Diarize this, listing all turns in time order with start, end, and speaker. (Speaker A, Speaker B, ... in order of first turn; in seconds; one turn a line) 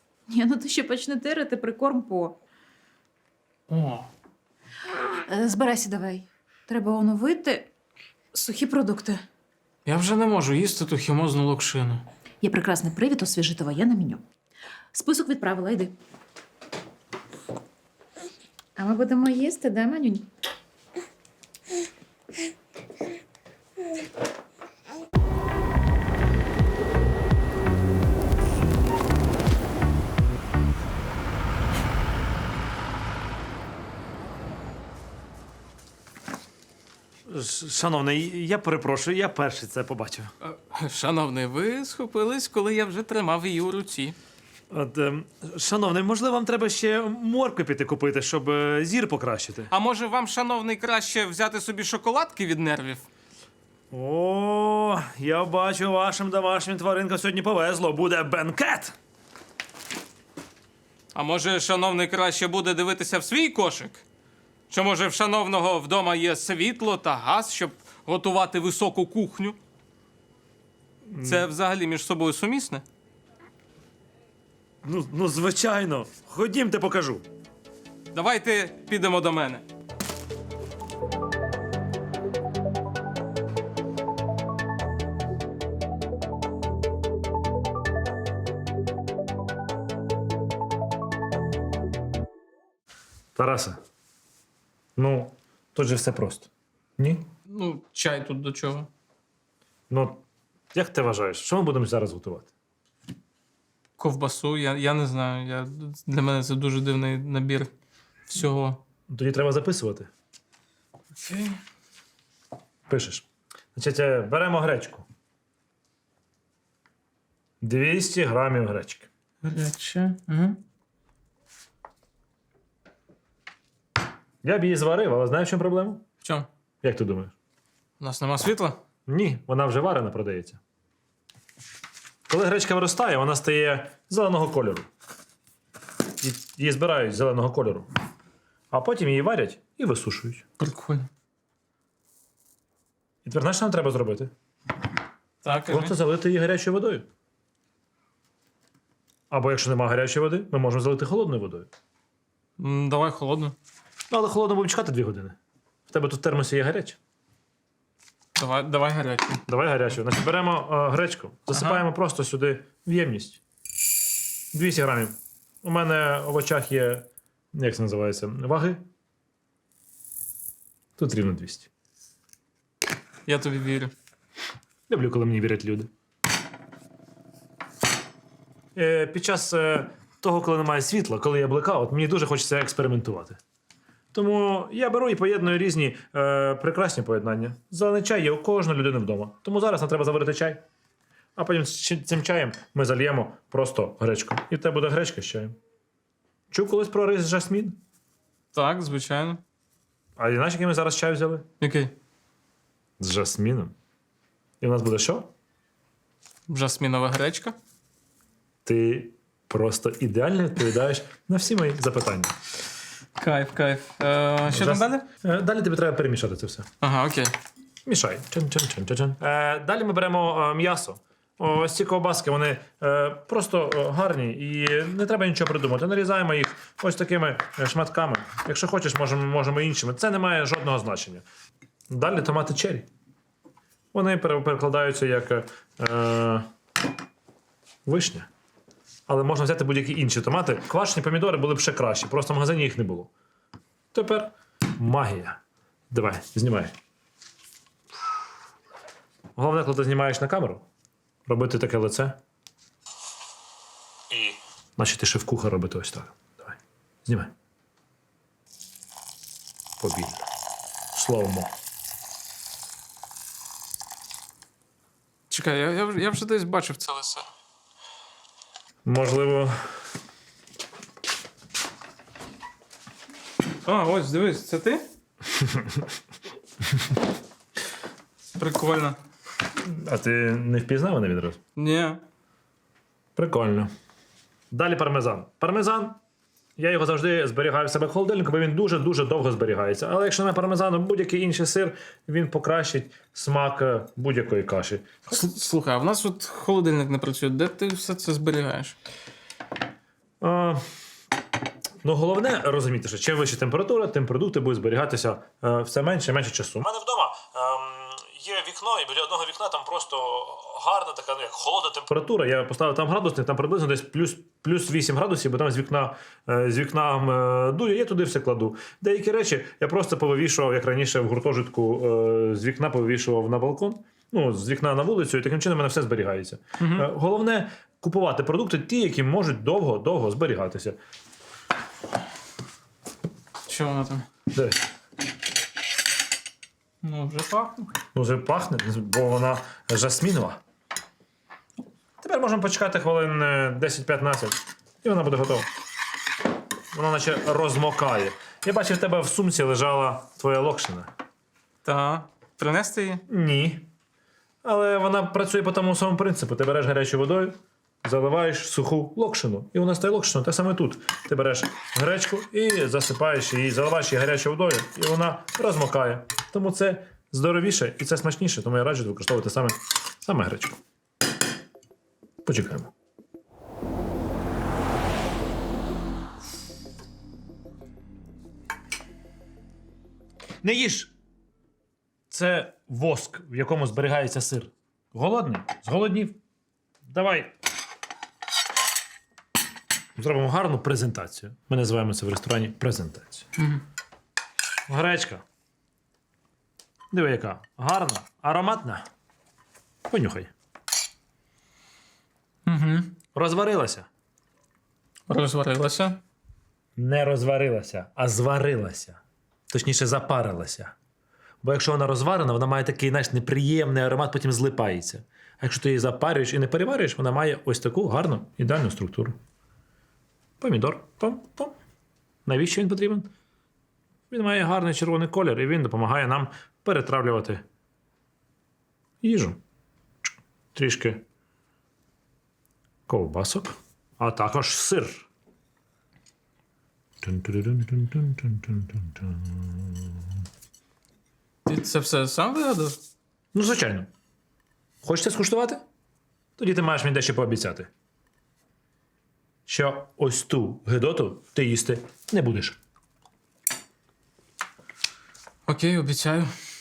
Speaker A: 0.3-2.4
Speaker B: 3.7-4.1
Speaker A: 5.2-7.7
Speaker A: 8.3-9.2
Speaker B: 9.8-12.1
Speaker A: 12.4-14.2
Speaker A: 14.9-15.9
Speaker A: 18.8-20.3
Speaker C: 37.3-40.3
Speaker B: 40.4-44.2
Speaker C: 44.7-49.7
Speaker B: 49.7-53.1
Speaker C: 53.9-59.0
Speaker B: 61.1-64.0
Speaker B: 64.7-69.6
Speaker C: 71.1-71.5
Speaker B: 71.2-72.8
Speaker C: 74.8-77.2
Speaker B: 78.1-79.6
Speaker C: 93.3-93.8
Speaker C: 95.0-97.3
Speaker B: 97.5-98.9
Speaker C: 99.9-100.2
Speaker C: 100.7-102.5
Speaker B: 104.0-107.7
Speaker B: 108.3-108.8
Speaker C: 109.1-110.1
Speaker B: 111.1-111.6
Speaker C: 112.9-115.1
Speaker C: 117.6-119.1
Speaker B: 119.4-120.6
Speaker C: 124.4-126.0
Speaker B: 126.2-126.5
Speaker C: 126.8-127.3
Speaker B: 128.0-128.8
Speaker C: 129.1-130.6
Speaker C: 132.3-134.9
Speaker C: 136.2-137.9
Speaker C: 138.7-140.4
Speaker B: 140.6-141.1
Speaker C: 143.2-144.3
Speaker B: 145.4-145.9
Speaker C: 145.5-147.1
Speaker C: 149.3-151.7
Speaker B: 152.6-153.6
Speaker C: 154.1-157.0
Speaker B: 158.3-159.4
Speaker C: 159.5-163.4
Speaker B: 161.5-161.8
Speaker C: 164.5-168.8
Speaker C: 171.0-171.7
Speaker B: 173.3-173.9
Speaker C: 174.9-175.9
Speaker C: 178.8-183.4
Speaker C: 184.1-190.6
Speaker C: 191.4-195.6
Speaker C: 196.5-197.8
Speaker B: 198.5-199.4
Speaker C: 200.2-201.4
Speaker B: 201.6-201.9
Speaker C: 203.0-203.7
Speaker C: 204.6-205.3
Speaker B: 206.5-207.6
Speaker C: 208.7-212.3
Speaker B: 213.2-215.1
Speaker C: 214.5-216.7
Speaker B: 216.8-217.3
Speaker C: 217.9-231.2
Speaker C: 231.9-232.9
Speaker C: 233.9-236.5
Speaker C: 237.9-238.3
Speaker C: 239.1-243.1
Speaker C: 243.9-245.4
Speaker C: 245.9-246.8
Speaker C: 249.4-250.7
Speaker C: 251.3-252.2
Speaker C: 254.1-257.3
Speaker C: 259.8-260.2
Speaker C: 260.9-261.5
Speaker B: 265.3-267.3
Speaker C: 268.9-269.6
Speaker B: 273.6-274.8
Speaker B: 278.4-279.0
Speaker C: 279.6-281.4
Speaker B: 281.6-282.0
Speaker C: 283.2-283.7
Speaker C: 284.5-286.0
Speaker C: 286.6-295.1
Speaker B: 295.1-298.8
Speaker C: 300.2-300.6
Speaker C: 301.8-330.8
Speaker B: 326.6-326.9
Speaker B: 333.5-334.1
Speaker C: 334.3-334.6
Speaker B: 336.8-337.7
Speaker C: 337.9-340.4
Speaker C: 342.0-345.5
Speaker C: 346.7-350.9
Speaker B: 351.6-353.0
Speaker C: 353.1-353.7
Speaker C: 354.4-370.6
Speaker C: 372.2-372.7
Speaker C: 380.4-380.9
Speaker C: 382.1-386.2
Speaker C: 386.9-387.3
Speaker C: 390.0-393.3
Speaker C: 394.7-395.2
Speaker C: 396.9-398.9
Speaker C: 399.9-400.3
Speaker B: 402.5-402.9
Speaker C: 403.1-403.9
Speaker B: 405.1-406.0
Speaker C: 406.8-410.7
Speaker C: 411.4-419.2
Speaker C: 420.4-421.5
Speaker C: 422.3-423.1
Speaker C: 424.1-427.4
Speaker C: 429.0-429.4
Speaker C: 430.5-431.0
Speaker C: 432.9-435.1
Speaker C: 437.0-439.7
Speaker B: 441.5-442.8
Speaker C: 443.3-443.9
Speaker C: 444.8-445.6
Speaker C: 446.4-447.7
Speaker C: 449.5-452.6
Speaker B: 455.5-456.3